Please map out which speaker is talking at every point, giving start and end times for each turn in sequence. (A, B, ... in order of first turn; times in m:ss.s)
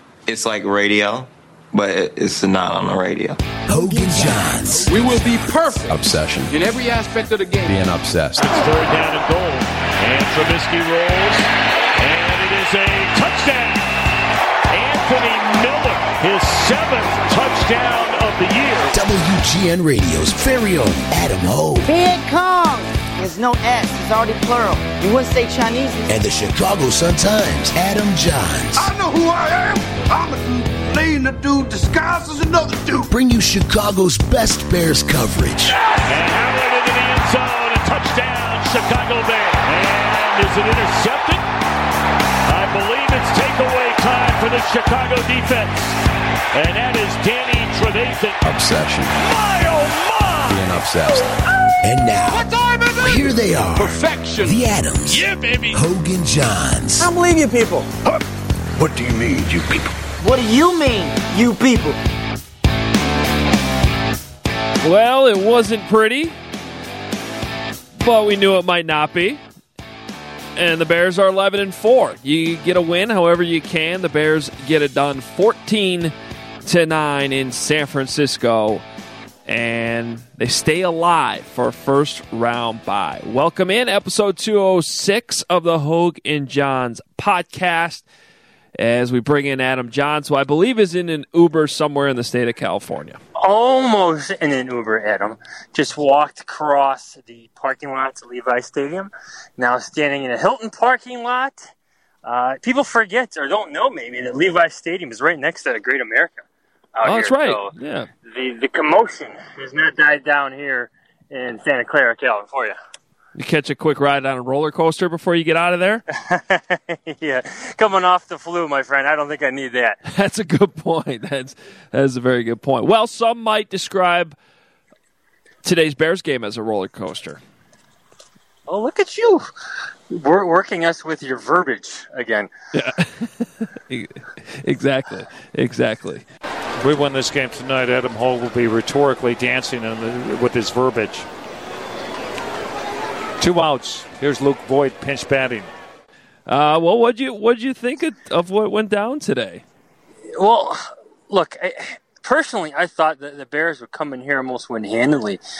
0:00.3-0:03.4 A
0:03.7-0:05.1 B
0:05.0-0:05.9 C
0:05.8-0:06.7 D
0:06.5-0:07.7 C
0:07.6-0:08.6 D
0:08.4-0:13.8 E
0:14.7-0:18.9 E
0:18.9-0:21.9 B
0:21.8-0:26.1 F
0:26.1-0:28.9 B
0:28.7-0:33.1 G
0:33.1-0:35.8 B
0:36.0-0:41.4 E
0:42.4-0:46.0 E
0:46.5-0:48.4 E
0:48.4-0:49.2 D
0:49.2-0:50.6 E
0:50.4-0:51.3 D
0:51.8-0:57.1 B
0:52.3-0:53.3 G
0:53.8-0:54.5 C
0:55.1-0:55.8 E
0:57.0-0:57.9 F
0:58.8-0:59.8 G
1:00.2-1:02.0 F
1:04.8-1:06.3 H
1:08.0-1:09.4 H
1:10.6-1:16.1 H
1:16.6-1:18.8 H
1:19.5-1:28.0 H
1:28.8-1:33.2 H
1:33.4-1:41.6 I
1:42.2-1:47.7 I
1:47.0-1:48.1 H
1:48.2-1:52.8 I
1:53.4-1:56.0 H
1:56.2-2:00.0 I
2:00.0-2:04.4 H
2:05.6-2:07.4 H
2:08.7-2:09.5 I
2:10.1-2:12.5 I
2:12.7-2:16.2 H
2:16.8-2:21.3 E
2:23.4-2:25.7 E
2:26.5-2:29.6 H
2:30.3-2:35.4 I